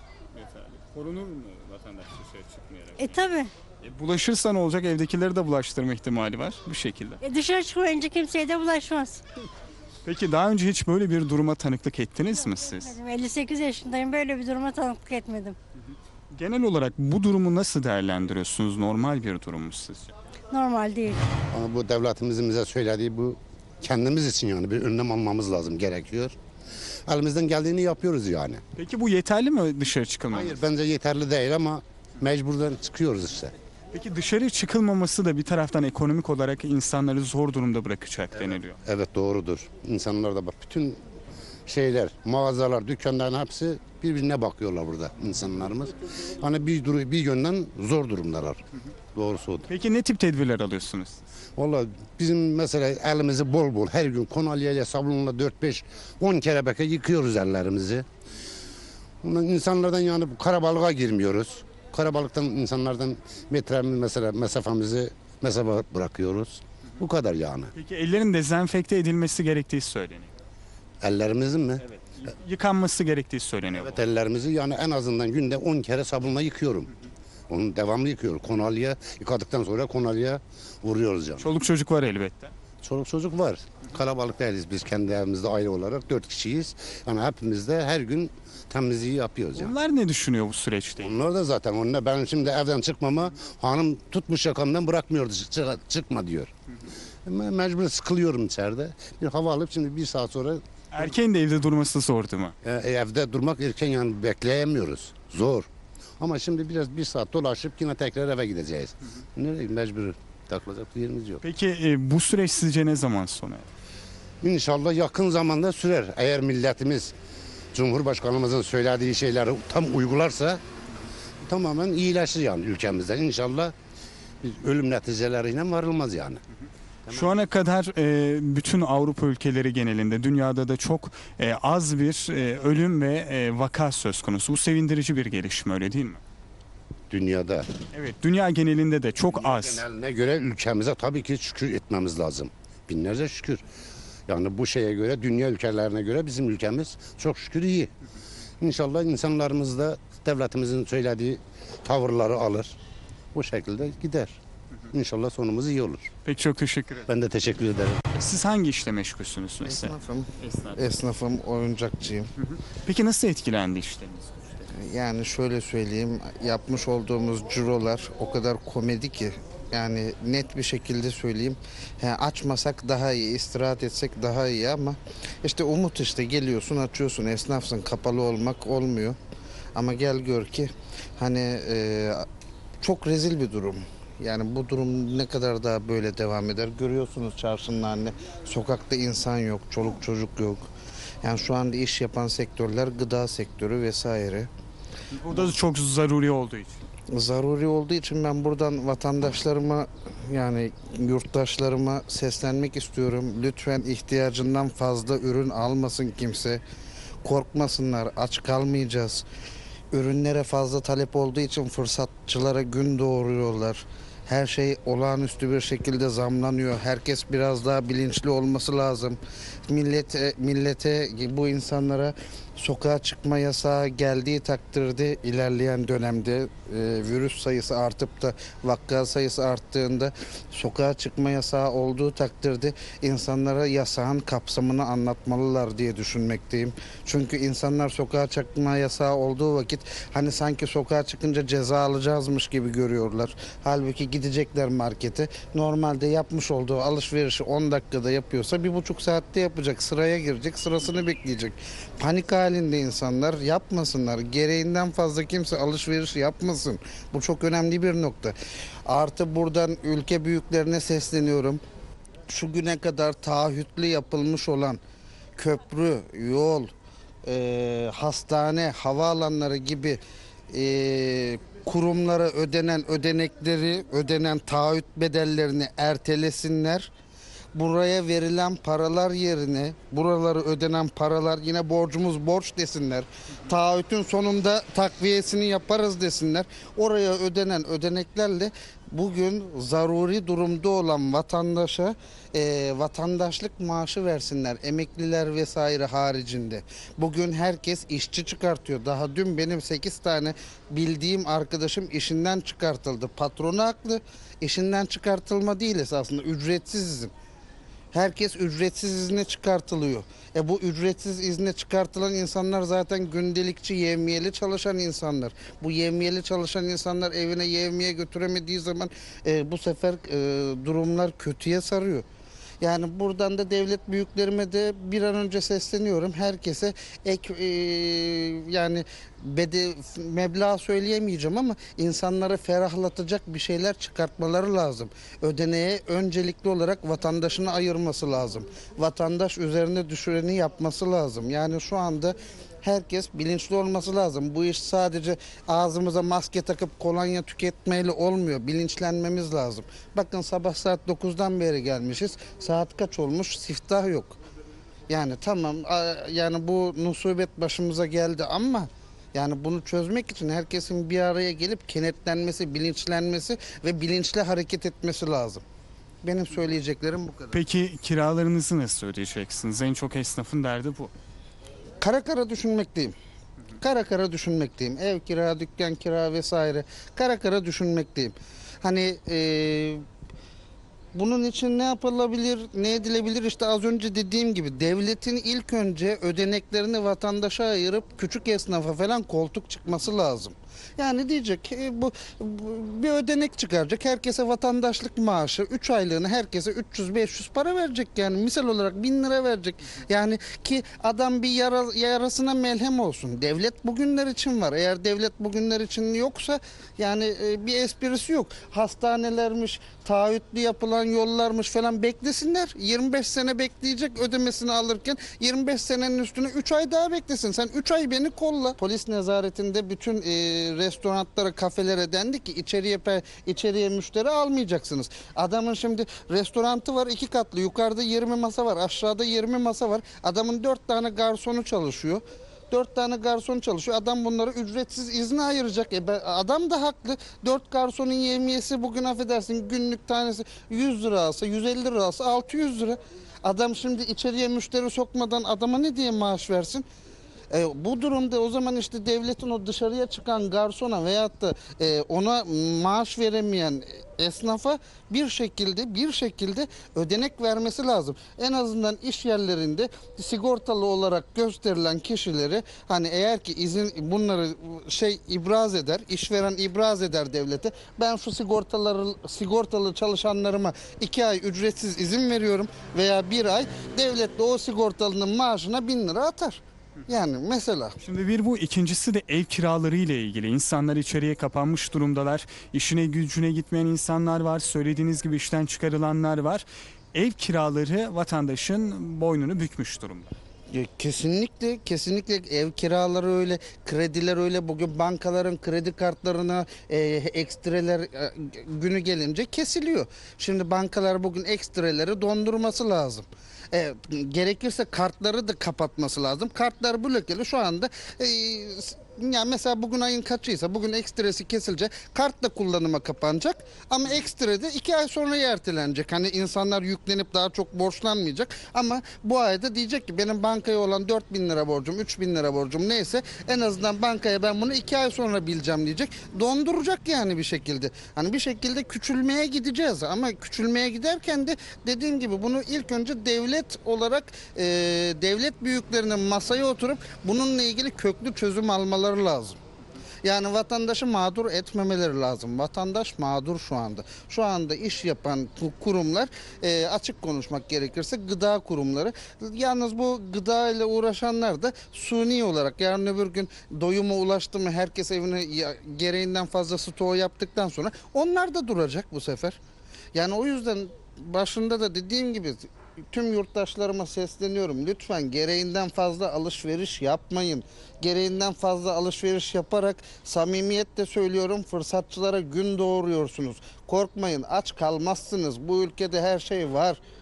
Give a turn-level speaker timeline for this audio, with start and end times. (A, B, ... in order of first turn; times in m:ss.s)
0:00.3-0:03.1 A
0:03.0-0:03.5 B
0:03.8-0:07.2 A
0:07.2-0:09.2 B
0:10.0-0:12.9 A
0:12.4-0:15.6 B
0:16.3-0:20.1 A
0:20.5-0:21.2 B
0:21.5-0:26.4 C
0:27.1-0:28.6 C
0:28.8-0:30.6 A
0:30.3-0:33.5 C
0:33.9-0:38.8 A
0:38.4-0:41.0 C
0:41.6-0:48.6 C
0:49.1-0:49.6 C
0:49.7-0:51.2 A
0:51.6-0:58.0 C
0:59.2-1:07.7 C
1:07.7-1:10.3 A
1:11.0-1:11.8 C
1:11.9-1:14.0 A
1:13.8-1:16.9 C
1:17.5-1:21.4 C
1:21.4-1:22.5 A
1:22.8-1:29.7 C
1:29.6-1:31.2 A
1:31.0-1:36.5 C
1:37.2-1:40.6 C
1:40.9-1:42.5 A
1:42.6-1:45.7 C
1:46.2-1:51.4 C
1:51.4-1:53.7 A
1:54.4-1:57.1 C
1:57.7-2:00.6 C
2:01.4-2:03.7 C
2:04.4-2:06.4 C
2:07.1-2:16.2 A
2:17.1-2:17.7 C
2:17.9-2:19.8 A
2:19.3-2:23.6 C
2:24.3-2:27.9 C
2:28.6-2:32.7 C
2:33.3-2:34.4 C
2:34.9-2:36.1 C
2:36.2-2:37.1 A
2:37.1-2:38.0 C
2:38.1-2:40.8 A
2:39.6-2:42.3 D
2:42.4-2:44.7 A
2:44.7-2:59.2 D
2:59.7-3:02.3 D
3:02.8-3:10.7 D
3:11.2-3:14.5 D
3:15.1-3:16.8 A
3:17.1-3:26.6 D
3:27.2-3:29.2 D
3:29.9-4:21.6 D
4:22.3-4:24.8 D
4:25.4-4:26.7 D
4:27.2-4:36.9 D
4:37.5-5:07.1 D
5:07.9-5:22.0 D
5:22.6-5:54.2 D
5:54.9-6:05.4 D
6:06.0-6:07.4 D
6:07.3-6:10.9 A
6:11.8-6:13.0 D
6:13.6-6:19.8 D
6:20.9-7:26.6 D
7:27.3-7:57.8 D
7:57.8-8:10.1 A
8:10.5-8:59.4 D
9:00.0-9:19.4 D
9:19.9-9:36.8 D